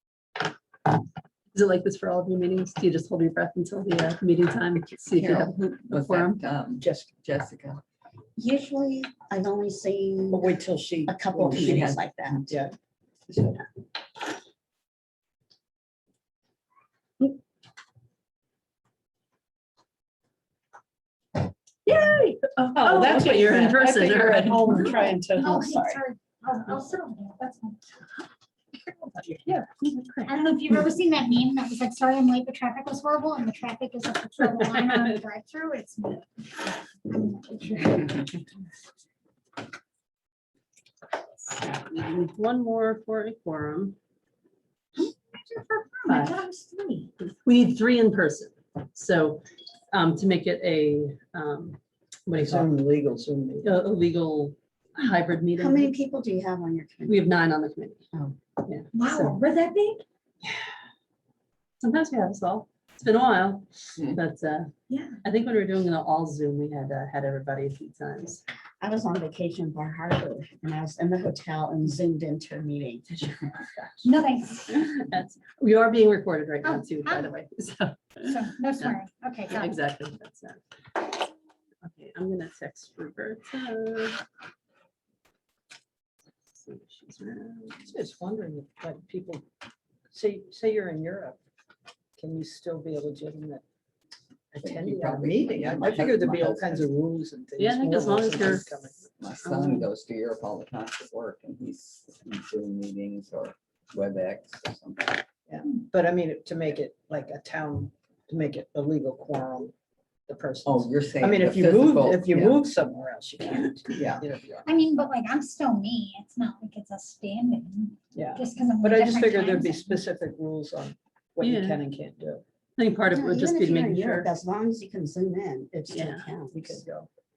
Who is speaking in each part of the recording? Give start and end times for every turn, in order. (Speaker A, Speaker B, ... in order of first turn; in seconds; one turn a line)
Speaker A: 1.5-6.4
Speaker B: 5.1-7.8
Speaker C: 6.8-7.1
Speaker D: 8.4-10.5
Speaker C: 10.3-11.9
Speaker D: 11.1-12.5
Speaker B: 11.6-12.4
Speaker C: 12.5-12.7
Speaker C: 13.3-13.6
Speaker A: 21.9-25.0
Speaker C: 22.8-26.0
Speaker E: 24.7-27.8
Speaker A: 29.0-30.4
Speaker E: 30.2-36.2
Speaker A: 34.6-35.1
Speaker E: 37.0-38.7
Speaker A: 41.4-44.0
Speaker E: 45.0-47.1
Speaker A: 46.1-46.4
Speaker A: 47.2-52.7
Speaker C: 52.4-53.7
Speaker A: 53.6-56.0
Speaker D: 55.6-57.3
Speaker A: 57.1-58.0
Speaker A: 58.6-59.4
Speaker E: 58.9-60.0
Speaker A: 61.8-64.7
Speaker E: 64.9-65.2
Speaker A: 65.2-68.4
Speaker D: 68.8-73.1
Speaker E: 74.0-74.8
Speaker A: 74.7-80.6
Speaker E: 76.7-77.3
Speaker E: 78.2-79.7
Speaker A: 81.8-84.2
Speaker A: 86.6-87.8
Speaker C: 87.8-89.4
Speaker C: 90.1-91.4
Speaker C: 92.2-93.6
Speaker C: 94.5-99.0
Speaker B: 94.6-96.9
Speaker A: 97.6-98.8
Speaker B: 99.2-105.3
Speaker A: 99.4-99.9
Speaker C: 105.5-109.7
Speaker C: 110.3-114.5
Speaker B: 110.7-112.6
Speaker B: 113.9-114.7
Speaker E: 114.7-120.0
Speaker C: 118.1-122.4
Speaker A: 121.4-121.8
Speaker A: 122.8-124.3
Speaker D: 123.1-126.8
Speaker A: 125.9-126.3
Speaker C: 126.5-127.1